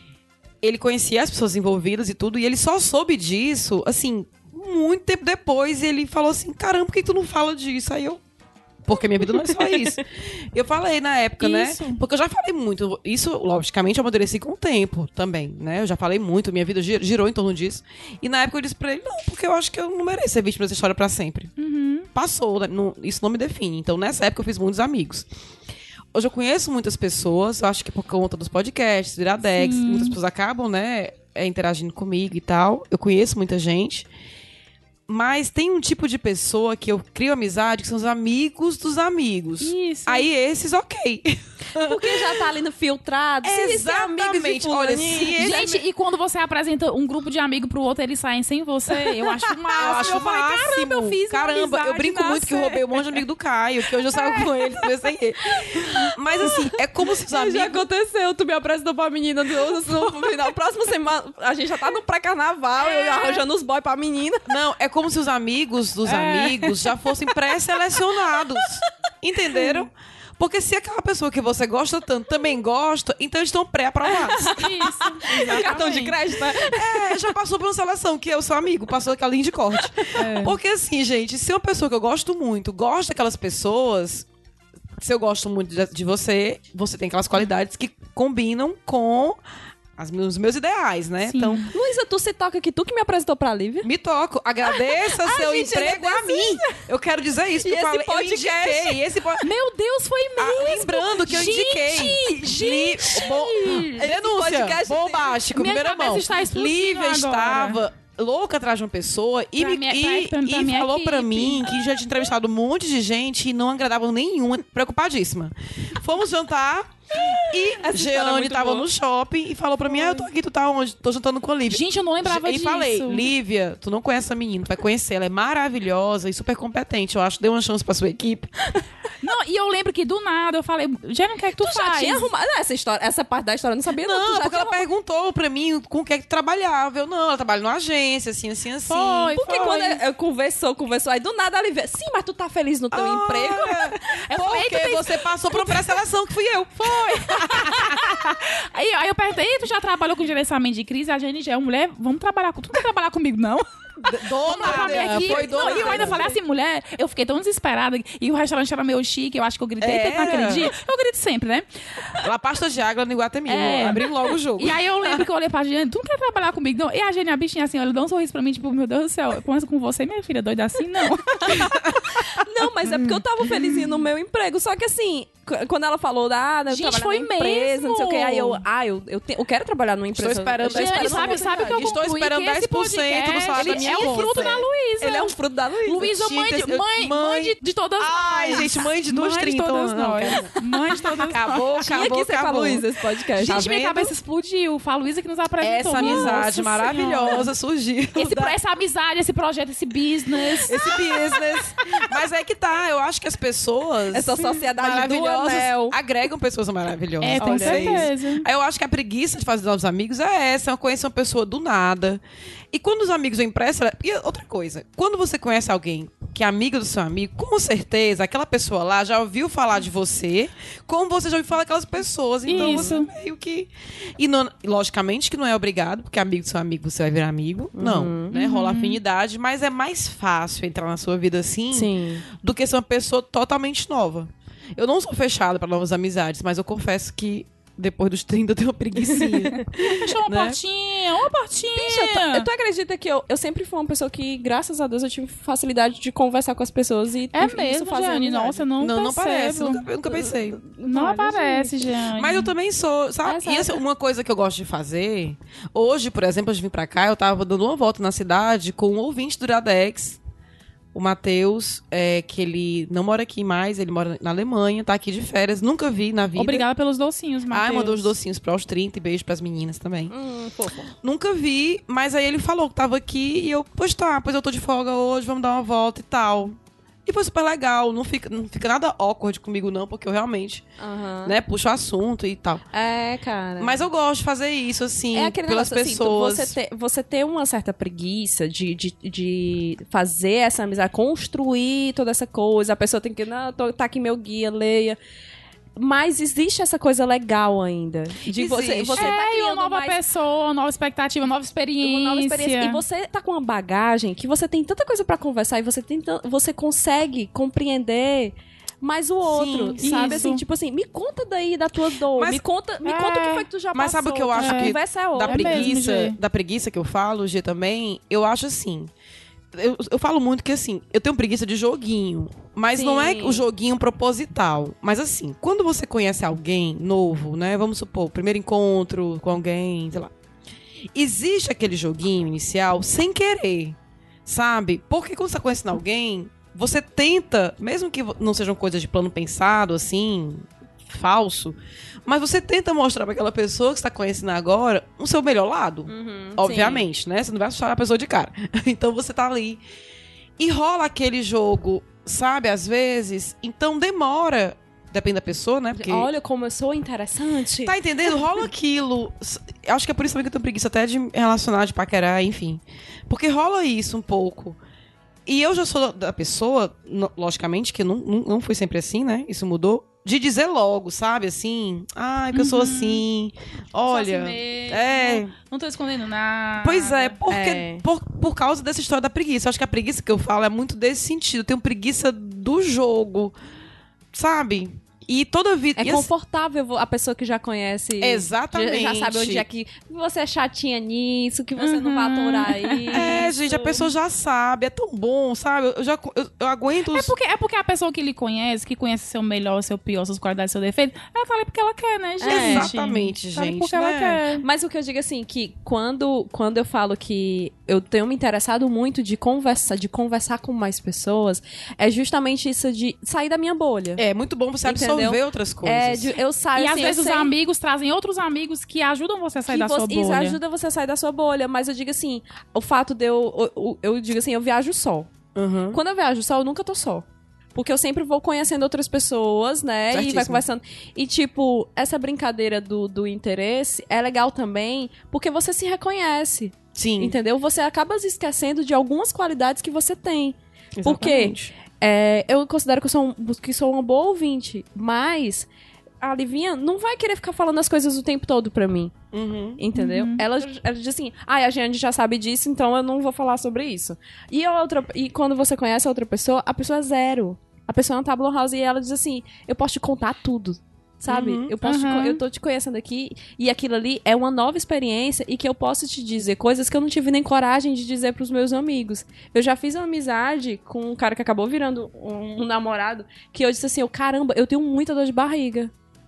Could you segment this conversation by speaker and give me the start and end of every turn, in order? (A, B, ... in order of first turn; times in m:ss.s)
0:00.6-0:08.2 A
0:08.8-0:21.5 A
0:11.4-0:12.0 B
0:21.6-0:22.1 B
0:22.2-0:25.3 A
0:26.1-0:34.1 A
0:29.5-0:30.2 B
0:35.1-0:42.4 A
0:39.6-0:40.3 B
0:41.7-0:45.4 C
0:43.4-0:45.8 A
0:45.4-0:52.9 B
0:49.8-0:57.8 A
0:57.3-1:04.5 C
1:02.9-1:03.4 B
1:04.5-1:14.6 A
1:06.1-1:06.6 B
1:14.4-1:17.2 C
1:14.5-1:16.1 B
1:15.3-1:15.9 A
1:16.5-1:24.3 A
1:20.2-1:20.6 B
1:25.0-1:29.4 A
1:30.0-1:31.7 A
1:31.3-1:31.7 B
1:31.7-1:33.9 C
1:33.8-1:39.5 A
1:34.7-1:36.8 C
1:37.6-1:39.0 C
1:39.4-1:44.0 B
1:40.4-2:08.5 A
1:44.0-1:45.4 C
1:45.5-1:47.8 B
1:49.6-1:51.7 B
1:57.7-1:58.9 C
2:01.7-2:03.3 B
2:09.2-2:12.3 B
2:11.6-2:14.8 C
2:14.0-2:19.4 A
2:18.9-2:20.0 B
2:19.3-2:23.9 C
2:22.9-2:28.0 A
2:24.2-2:26.0 B
2:26.8-2:33.6 B
2:34.0-2:36.2 A
2:34.4-2:36.4 C
2:34.4-2:42.1 B
2:39.8-2:40.7 A
2:42.2-2:45.2 A
2:43.5-2:44.0 B
2:44.6-2:51.8 B
2:51.6-2:51.9 A
2:52.4-3:02.0 C
2:56.7-2:58.6 B
3:00.1-3:04.6 A
3:00.7-3:05.3 B
3:03.6-3:06.0 C
3:05.8-3:12.0 B
3:05.9-3:14.2 A
3:11.8-3:13.6 C
3:13.4-3:17.5 B
3:15.6-3:18.5 A
3:16.0-3:16.5 C
3:18.2-3:20.8 B
3:20.6-4:00.6 A
3:24.1-3:26.0 C
3:27.2-3:28.5 B
3:27.4-3:28.1 C
3:42.5-3:43.1 B
3:42.6-3:42.8 C
3:47.8-3:48.4 C
3:48.3-3:49.0 B
3:51.7-3:52.2 C
3:59.8-4:02.5 B
4:01.8-4:08.6 C
4:07.3-4:09.8 B
4:08.8-4:10.6 A
4:10.1-4:11.9 C
4:10.9-4:12.5 B
4:12.2-4:20.2 A
4:13.2-4:13.8 C
4:20.9-4:26.7 A
4:26.4-4:28.1 B
4:27.5-4:30.1 A
4:30.1-4:30.9 C
4:31.0-4:40.6 A
4:40.8-4:41.4 C
4:41.2-4:42.6 A
4:42.7-4:43.9 C
4:43.6-4:46.6 A
4:45.1-4:55.0 C
4:55.8-5:00.0 C
4:58.3-4:59.2 A
4:59.0-5:02.8 B
5:01.8-5:15.8 C
5:09.2-5:10.3 A
5:09.8-5:10.4 B
5:12.8-5:13.5 B
5:13.8-5:18.9 A
5:14.4-5:14.8 B
5:15.3-5:16.2 B
5:19.5-5:30.1 A
5:22.7-5:23.4 C
5:31.0-5:49.6 A
5:45.9-5:46.9 C
5:50.4-5:56.1 A
5:55.8-5:57.8 C
5:57.6-6:04.6 A
6:05.3-6:15.3 A
6:12.3-6:13.0 B
6:13.9-6:17.2 B
6:16.6-6:23.4 A
6:17.3-6:17.8 C
6:24.1-6:26.1 A
6:25.8-6:33.7 C
6:28.0-6:29.4 A
6:31.6-6:33.3 B
6:32.9-6:37.1 A
6:36.9-6:44.4 B
6:42.2-6:42.7 C
6:42.2-6:44.2 A
6:44.4-6:54.0 C
6:54.0-6:56.1 A
6:54.6-6:57.3 C
6:56.6-7:00.4 B
6:59.5-7:05.1 C
7:05.4-7:05.8 A
7:05.7-7:25.5 C
7:09.9-7:10.4 A
7:16.8-7:17.2 A
7:20.8-7:21.5 A
7:26.0-7:28.9 C
7:29.1-7:29.6 A
7:29.6-7:55.7 C
7:29.7-7:30.2 B
7:41.1-7:41.5 A
7:41.6-7:42.2 B